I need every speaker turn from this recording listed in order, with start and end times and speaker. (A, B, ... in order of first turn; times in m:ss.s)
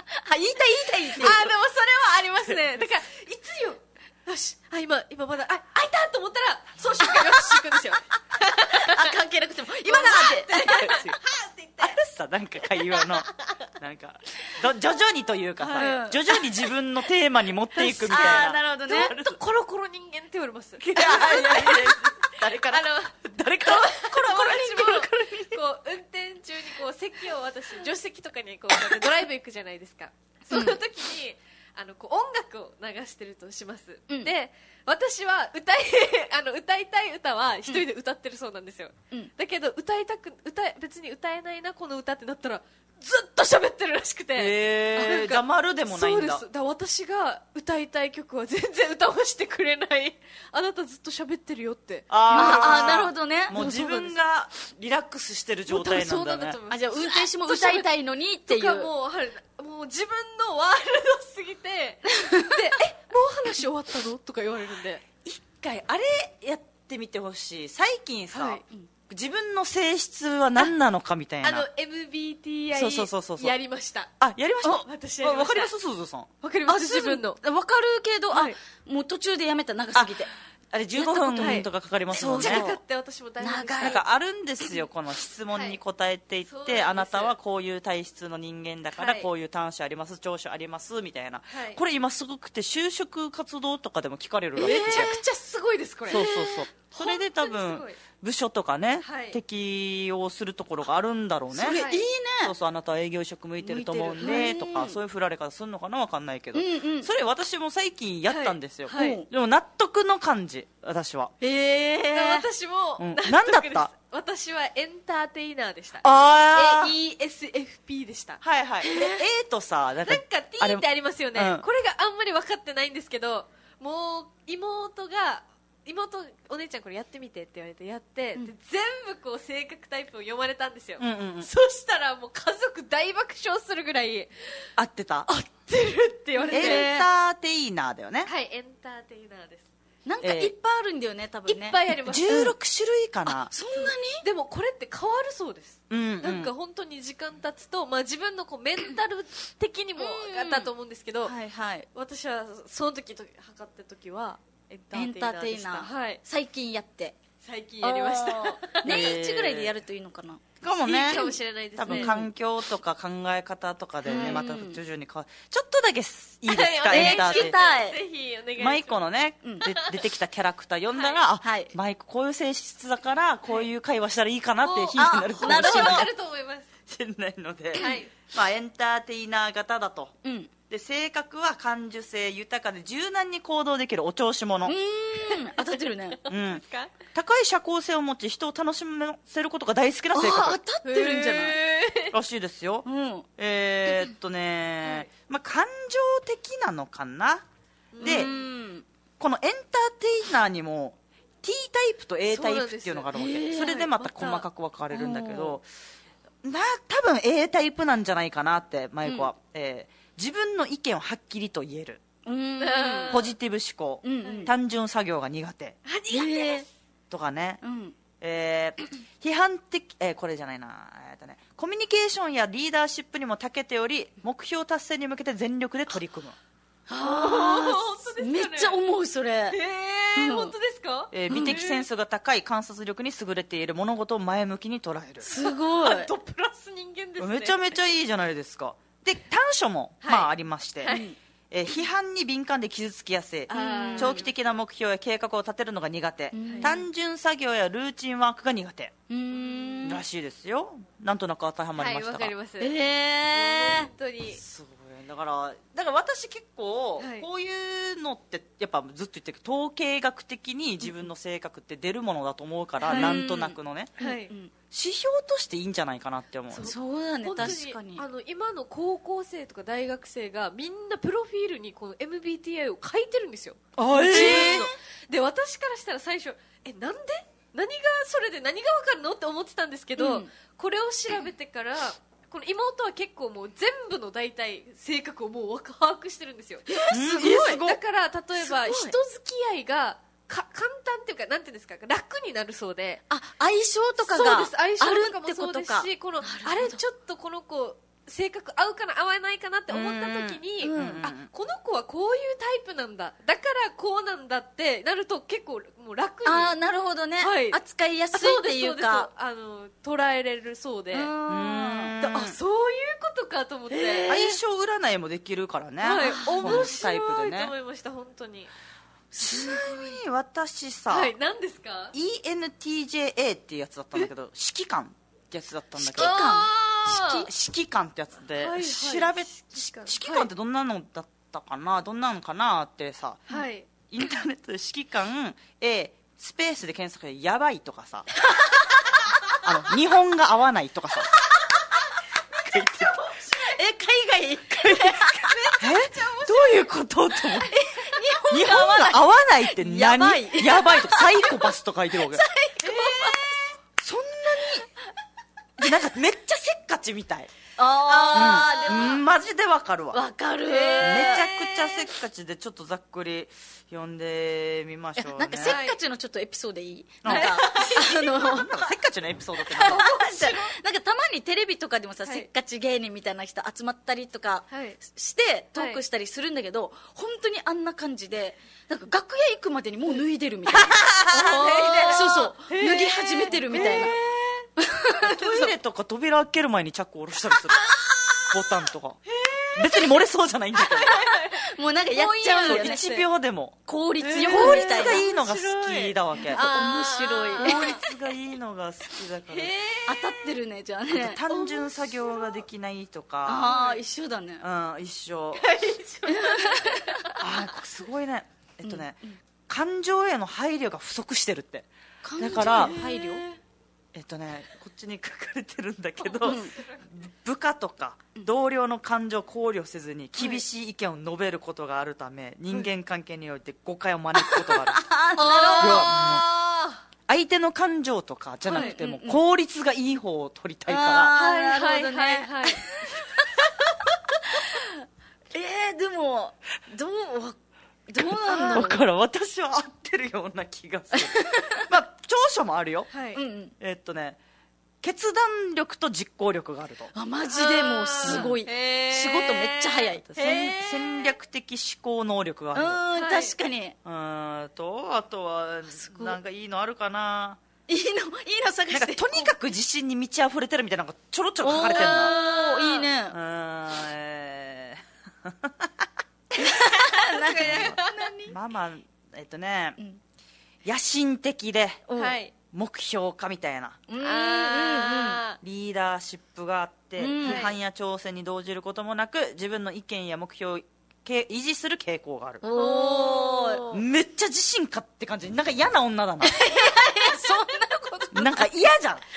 0:00.2-0:01.4 A
0:01.2-0:09.1 B
0:01.2-0:01.5 C
0:08.6-0:10.8 A
0:09.8-0:12.0 B
0:10.7-0:11.2 C
0:11.8-0:19.4 C
0:12.7-0:13.3 B
0:15.6-0:16.0 B
0:15.8-0:16.2 A
0:17.8-0:54.2 B
0:17.8-0:19.1 A
0:20.8-0:25.4 C
0:30.5-0:30.8 A
0:44.4-0:46.4 C
0:52.1-0:56.6 C
0:52.3-0:53.6 A
0:55.7-0:57.9 B
0:56.7-0:58.9 A
0:58.5-1:05.0 B
1:02.1-1:02.6 A
1:05.2-1:11.7 C
1:08.3-1:08.6 B
1:11.4-1:14.1 B
1:12.7-1:13.5 C
1:14.2-1:16.3 C
1:14.8-1:15.7 B
1:16.4-1:17.4 B
1:16.7-1:20.3 A
1:18.3-1:18.6 B
1:20.7-1:22.7 C
1:21.0-1:22.8 A
1:21.4-1:24.0 B
1:23.4-1:24.0 A
1:23.8-1:35.1 C
1:25.5-1:25.8 B
1:26.4-1:27.4 B
1:29.0-1:29.3 B
1:31.5-1:31.8 B
1:34.6-1:38.0 B
1:34.6-1:35.2 A
1:36.1-1:41.8 C
1:39.0-1:39.4 B
1:41.5-1:42.5 A
1:41.7-1:42.0 B
1:42.4-1:51.3 C
1:43.6-1:45.0 A
1:46.5-1:47.1 A
1:48.3-1:49.2 B
1:48.9-1:49.3 A
1:51.4-1:52.4 A
1:52.1-1:58.4 B
1:53.0-1:53.9 C
1:56.0-1:56.9 C
1:58.4-2:01.6 C
1:58.8-1:59.2 A
2:00.0-2:14.7 B
2:11.0-2:11.5 C
2:14.8-2:15.3 C
2:15.3-2:16.9 B
2:16.4-2:17.1 A
2:16.5-2:18.3 C
2:18.2-2:19.7 B
2:20.1-2:22.5 A
2:20.2-2:20.5 C
2:21.5-2:22.4 B
2:22.0-2:23.5 C
2:23.3-2:24.2 A
2:23.8-2:31.4 B
2:25.9-2:26.5 C
2:30.0-2:30.7 A
2:31.2-2:31.9 A
2:31.9-2:36.2 B
2:34.9-2:37.2 A
2:37.4-2:39.1 B
2:37.8-2:40.4 A
2:38.8-2:39.8 C
2:40.6-2:47.5 C
2:40.8-2:42.3 B
2:41.1-2:42.3 A
2:44.1-2:44.4 B
2:44.1-2:44.8 A
2:46.5-2:49.0 B
2:46.9-2:48.0 A
2:48.6-2:56.1 C
2:49.6-2:50.0 B
2:50.9-2:51.2 B
2:51.4-2:51.8 A
2:54.6-2:56.7 B
2:55.0-2:56.1 A
2:56.9-3:00.1 C
2:57.7-2:58.1 B
2:57.8-2:58.0 A
3:00.2-3:00.5 A
3:00.7-3:04.8 C
3:04.6-3:06.2 A
3:05.2-3:06.9 B
3:06.3-3:10.6 C
3:10.1-3:11.6 A
3:10.8-3:12.2 B
3:12.1-3:12.9 C
3:12.8-3:13.3 A
3:13.4-3:17.4 C
3:17.9-3:18.4 B
3:18.0-3:18.3 C
3:18.0-3:18.9 A
3:19.2-3:25.7 C
3:22.3-3:24.5 B
3:23.1-3:23.7 A
3:24.9-3:25.6 A
3:26.4-3:32.0 C
3:29.0-3:29.3 A
3:32.2-3:33.2 A
3:32.6-3:33.3 B
3:33.1-3:35.8 C
3:34.0-3:34.5 A
3:34.2-3:34.5 B
3:35.9-3:36.7 B
3:36.1-3:36.6 A
3:37.1-3:37.6 C
3:37.6-3:38.0 A
3:38.2-3:46.4 C
3:46.9-3:49.6 A
3:47.0-3:48.8 B
3:49.5-3:51.9 B
3:50.2-3:50.5 A
3:51.1-3:55.3 C
3:51.3-3:51.6 A
3:55.2-3:56.1 A
3:55.3-3:57.8 B
3:57.2-4:00.9 C
4:00.0-4:00.3 B
4:00.8-4:01.1 B
4:00.9-4:01.2 A
4:01.5-4:08.9 C
4:03.5-4:04.2 A
4:03.5-4:04.3 B
4:06.3-4:06.8 A
4:06.4-4:06.8 B
4:09.1-4:10.0 A
4:09.3-4:09.9 B
4:09.8-4:12.3 C
4:11.8-4:14.4 B
4:12.6-4:13.9 A
4:14.3-4:23.9 C
4:17.0-4:17.3 B
4:22.8-4:23.3 B
4:22.9-4:24.5 A
4:24.0-4:24.3 B
4:24.7-4:26.7 C
4:26.5-4:53.0 B
4:26.6-4:28.0 A
4:33.8-4:34.7 C
4:33.9-4:34.8 A
4:40.0-4:40.3 A
4:46.7-4:47.6 A
4:46.9-4:47.8 C
4:48.4-4:49.0 A
4:53.1-4:56.8 A
4:54.0-5:06.6 B
4:59.7-5:01.3 C
5:00.6-5:01.1 A
5:06.2-5:09.1 A
5:07.2-5:07.6 B
5:08.1-5:11.1 B
5:10.9-5:12.0 A
5:11.3-5:12.4 C
5:12.0-5:14.2 B
5:13.7-5:14.4 A
5:14.1-5:17.5 C
5:15.8-5:18.5 B
5:15.9-5:16.7 A
5:19.1-5:19.9 A
5:19.2-5:21.1 C
5:20.9-5:21.9 B
5:21.9-5:26.2 C
5:25.8-5:27.0 A
5:26.0-5:27.3 B
5:26.9-5:33.3 C
5:28.4-5:30.3 B
5:33.3-5:33.7 B
5:33.9-5:38.1 C
5:38.3-5:39.4 A
5:39.4-5:41.1 C
5:41.3-5:41.7 A
5:42.4-5:43.0 C
5:43.0-5:43.4 B
5:43.1-5:45.5 A
5:44.6-5:45.0 C
5:45.0-5:46.6 B
5:45.6-5:47.5 C
5:47.4-5:51.5 A
5:48.3-5:52.2 C
5:52.1-5:53.5 A
5:52.6-5:53.5 B
5:53.8-5:54.7 C
5:55.6-5:57.3 C
5:57.6-5:59.0 A
5:57.9-6:00.0 C
5:58.2-5:58.8 B
5:59.9-6:01.3 A
6:00.5-6:01.8 B
6:00.8-6:05.6 C
6:05.0-6:08.7 A
6:05.4-6:05.8 B
6:07.0-6:09.9 C
6:07.1-6:07.9 B
6:09.5-6:10.5 B
6:09.6-6:24.0 A
6:14.5-6:14.8 B
6:15.6-6:15.8 B
6:20.5-6:22.1 C
6:21.1-6:24.5 B
6:23.5-6:24.0 C
6:24.6-6:25.5 A
6:25.0-6:27.6 C
6:28.3-6:29.0 C
6:29.1-6:29.9 B
6:29.6-6:31.0 C
6:30.6-6:33.1 B
6:31.3-6:32.8 A
6:32.4-6:33.6 C
6:33.7-6:35.1 A
6:34.0-6:37.8 B
6:34.2-6:36.4 C
6:36.3-6:37.8 A
6:37.4-6:39.6 C
6:39.3-6:40.3 B
6:39.9-6:41.2 A
6:40.9-6:43.5 C
6:41.3-6:42.3 B
6:43.2-6:44.4 A
6:43.3-6:43.8 B
6:44.4-6:45.5 C
6:45.4-6:47.2 B
6:46.1-6:47.1 A
6:47.2-6:52.8 C
6:48.6-6:49.2 A
6:52.0-6:53.3 A
6:52.3-6:53.4 B
6:53.9-7:04.9 C
6:56.0-6:56.9 B
6:56.2-6:56.5 A
7:04.2-7:06.0 A
7:05.2-7:06.8 B
7:05.6-7:06.2 C
7:07.1-7:11.1 C
7:08.5-7:09.2 A
7:08.5-7:08.8 B
7:10.7-7:13.3 A
7:11.1-7:12.8 B
7:14.3-7:14.6 A
7:15.3-7:17.4 A
7:17.9-7:18.8 A
7:18.0-7:22.9 C
7:18.3-7:18.7 B
7:20.9-7:21.7 A
7:22.9-7:23.2 B
7:23.1-7:23.5 A
7:23.6-7:24.2 C
7:24.8-7:26.9 C
7:26.9-7:30.0 A
7:27.3-7:31.2 B
7:28.0-7:28.4 C
7:30.1-7:32.8 C
7:32.5-7:33.8 A
7:32.9-7:33.4 B
7:33.8-7:37.4 C
7:35.8-7:36.2 A
7:37.7-7:39.3 A
7:38.7-7:42.2 C
7:41.4-7:43.2 A
7:41.6-7:42.9 B
7:43.1-7:45.9 C
7:46.4-7:48.4 A
7:47.0-7:48.1 B
7:47.4-7:49.8 C
7:50.6-7:51.9 C
7:51.9-7:52.2 A
7:51.9-7:52.3 B
7:52.5-7:53.8 C
7:53.9-7:55.2 A
7:54.0-7:55.4 B
7:55.4-8:02.4 C
7:57.0-7:57.5 A
7:57.2-7:57.6 B
8:02.4-8:03.7 A
8:02.4-8:03.8 B
8:03.7-8:06.4 C
8:06.2-8:08.5 A
8:08.1-8:09.0 C